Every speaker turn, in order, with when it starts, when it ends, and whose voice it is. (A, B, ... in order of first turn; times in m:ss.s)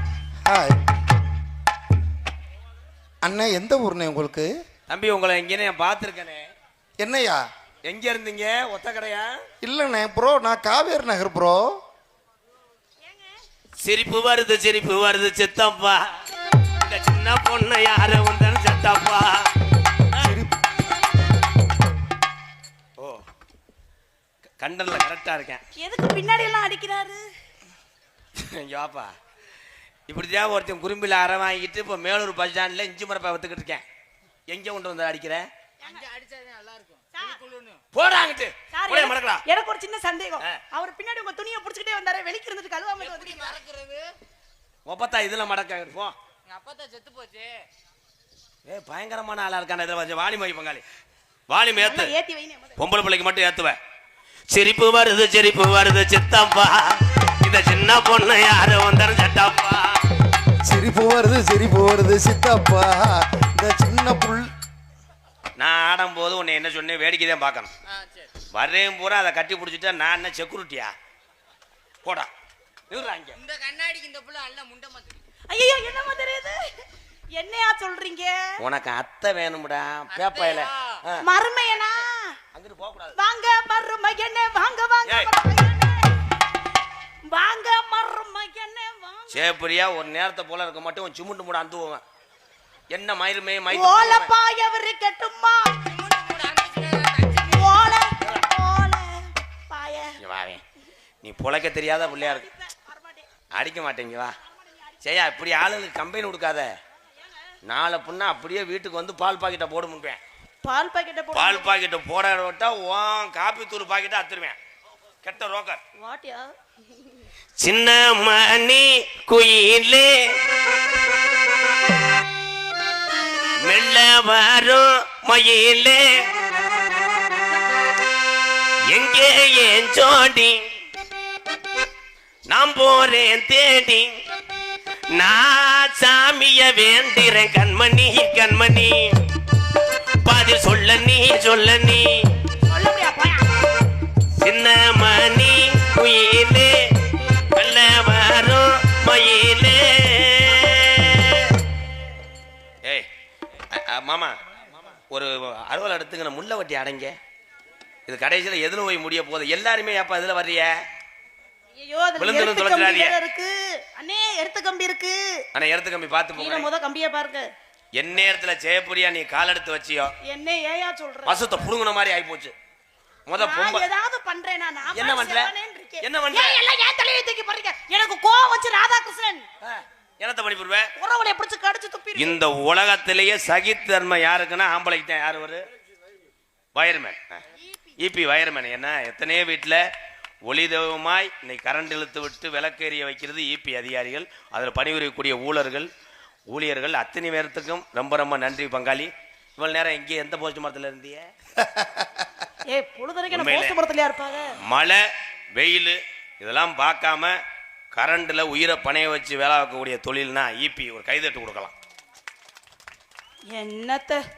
0:00.4-0:00.8 A
0:03.2-0:04.5 A
0:04.9-0:06.5 B
0:07.0-0:07.4 A
0:07.8-0:09.3 B
0:09.6-0:11.8 A
0:13.0-0:13.3 C
0:13.8-0:16.2 B
0:16.8-0:19.5 B
0:20.1-0:20.4 B
0:20.2-0:20.5 A
0:24.6-0:25.6 B
0:25.8-0:27.2 C
0:28.4-0:29.1 B
0:30.1-0:33.8 B
0:34.5-0:35.4 B
0:35.8-0:36.1 C
0:35.8-0:37.8 D
0:37.1-0:37.4 C
0:37.9-0:39.4 B
0:38.7-0:43.6 C
0:43.1-0:44.1 D
0:44.8-0:46.1 B
0:46.5-0:47.6 D
0:48.6-0:50.8 B
0:51.5-0:52.1 B
0:51.8-0:52.8 C
0:52.8-0:53.8 B
0:54.5-1:00.0 B
1:00.6-1:04.5 A
1:05.6-1:07.7 B
1:08.0-1:08.3 D
1:08.5-1:10.9 B
1:12.0-1:12.3 B
1:12.9-1:13.4 B
1:13.4-1:15.2 D
1:15.5-1:16.6 C
1:17.3-1:18.5 C
1:18.6-1:21.2 B
1:20.1-1:21.0 D
1:21.2-1:22.4 C
1:22.5-1:23.2 B
1:23.2-1:26.1 C
1:27.3-1:29.4 C
1:29.3-1:32.0 B
1:32.9-1:34.3 B
1:33.7-1:35.8 C
1:35.9-1:37.6 D
1:37.4-1:40.2 C
1:40.2-1:40.6 B
1:41.2-1:42.5 B
1:42.1-1:43.3 C
1:43.5-1:44.4 B
1:45.0-1:46.7 B
1:47.6-1:50.2 B
1:50.6-1:51.7 C
1:51.3-1:54.6 B
1:55.2-1:55.8 B
1:56.0-1:56.5 C
1:57.6-2:00.2 B
2:03.6-2:06.3 B
2:08.9-2:10.7 B
2:12.5-2:14.2 B
2:15.1-2:19.2 B
2:20.2-2:22.3 B
2:22.6-2:23.5 C
2:24.4-2:26.8 B
2:27.5-2:31.6 B
2:33.7-2:34.4 B
2:35.0-2:37.2 B
2:38.1-2:40.8 B
2:41.8-2:45.4 C
2:42.2-2:43.1 B
2:45.5-2:46.7 B
2:46.4-2:47.5 C
2:48.0-2:50.1 B
2:50.2-2:51.5 C
2:51.2-2:52.5 B
2:53.3-2:53.8 B
2:53.4-2:59.4 C
2:54.9-2:56.6 B
2:59.6-3:00.9 B
3:01.0-3:02.4 C
3:02.2-3:05.6 B
3:06.7-3:07.4 B
3:08.0-3:09.8 B
3:10.4-3:15.9 B
3:16.5-3:21.3 B
3:22.7-3:24.5 C
3:23.3-3:23.8 B
3:24.6-3:25.0 B
3:25.5-3:27.4 B
3:27.9-3:31.7 B
3:33.5-3:34.2 C